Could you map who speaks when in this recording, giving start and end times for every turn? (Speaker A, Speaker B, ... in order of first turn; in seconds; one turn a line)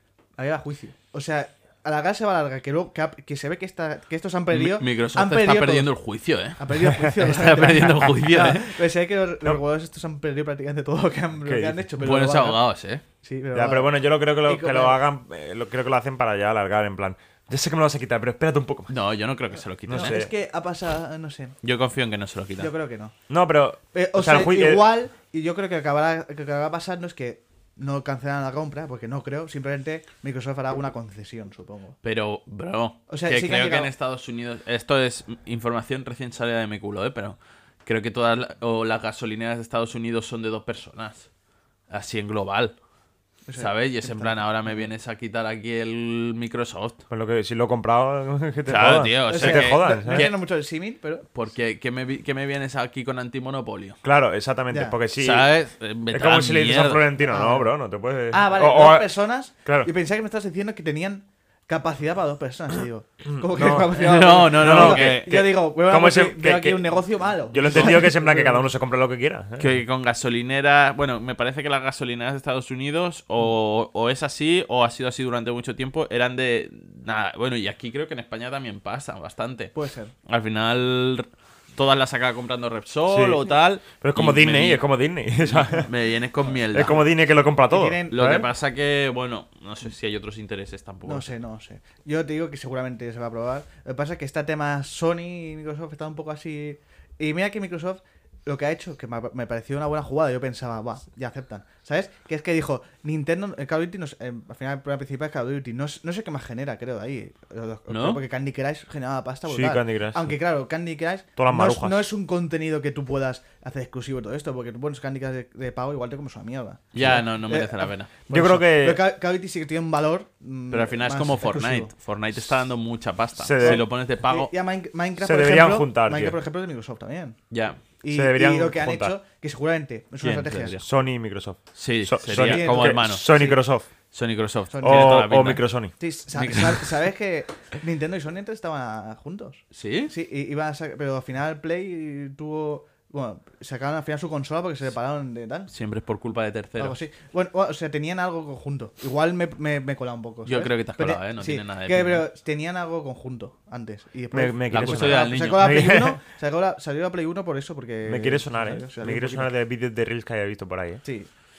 Speaker A: 0.4-5.9
Speaker B: 4.5-8.8
Speaker A: 6.6-12.6
Speaker C: 11.4-11.8
Speaker B: 12.0-13.0
Speaker A: 13.2-15.0
Speaker C: 13.5-18.9
Speaker B: 18.9-20.2
Speaker C: 19.9-20.3
Speaker A: 19.9-21.6
Speaker B: 21.6-22.7
Speaker A: 22.6-23.1
Speaker C: 23.3-24.9
Speaker A: 23.9-31.9
Speaker B: 32.0-41.3
Speaker A: 33.1-33.9
Speaker B: 41.9-42.7
Speaker A: 43.5-44.9
Speaker B: 43.6-47.0
Speaker C: 47.1-50.3
Speaker B: 48.7-50.4
Speaker A: 49.3-51.3
Speaker B: 51.3-54.0
Speaker C: 54.0-55.5
Speaker A: 54.7-55.0
Speaker B: 55.2-57.0
Speaker C: 56.1-59.1
Speaker A: 57.2-57.7
Speaker A: 58.3-68.7
Speaker C: 59.6-59.9
Speaker C: 63.3-66.8
Speaker B: 63.9-65.3
Speaker C: 67.5-69.7
Speaker B: 69.6-79.7
Speaker A: 79.7-80.1
Speaker B: 80.2-84.8
Speaker C: 83.1-85.9
Speaker B: 85.5-87.0
Speaker C: 86.7-88.5
Speaker A: 87.6-88.4
Speaker B: 88.1-91.3
Speaker A: 91.0-121.9
Speaker B: 107.9-108.2
Speaker C: 109.5-110.3
Speaker C: 111.4-112.0
Speaker B: 116.9-118.1
Speaker C: 118.3-119.0
Speaker B: 120.7-124.5
Speaker C: 123.4-123.8
Speaker A: 123.6-127.4
Speaker C: 125.2-126.4
Speaker B: 127.5-127.8
Speaker A: 128.0-130.8
Speaker C: 128.1-129.2
Speaker B: 130.2-130.8
Speaker C: 130.8-133.9
Speaker B: 131.7-133.5
Speaker A: 132.3-133.6
Speaker B: 134.1-135.6
Speaker A: 134.7-135.2
Speaker C: 134.8-135.9
Speaker A: 136.0-145.7
Speaker B: 136.3-136.9
Speaker B: 139.7-140.1
Speaker B: 145.7-147.0
Speaker A: 146.8-159.5
Speaker B: 150.4-152.2
Speaker C: 154.3-156.2
Speaker B: 154.7-155.8
Speaker C: 158.0-161.0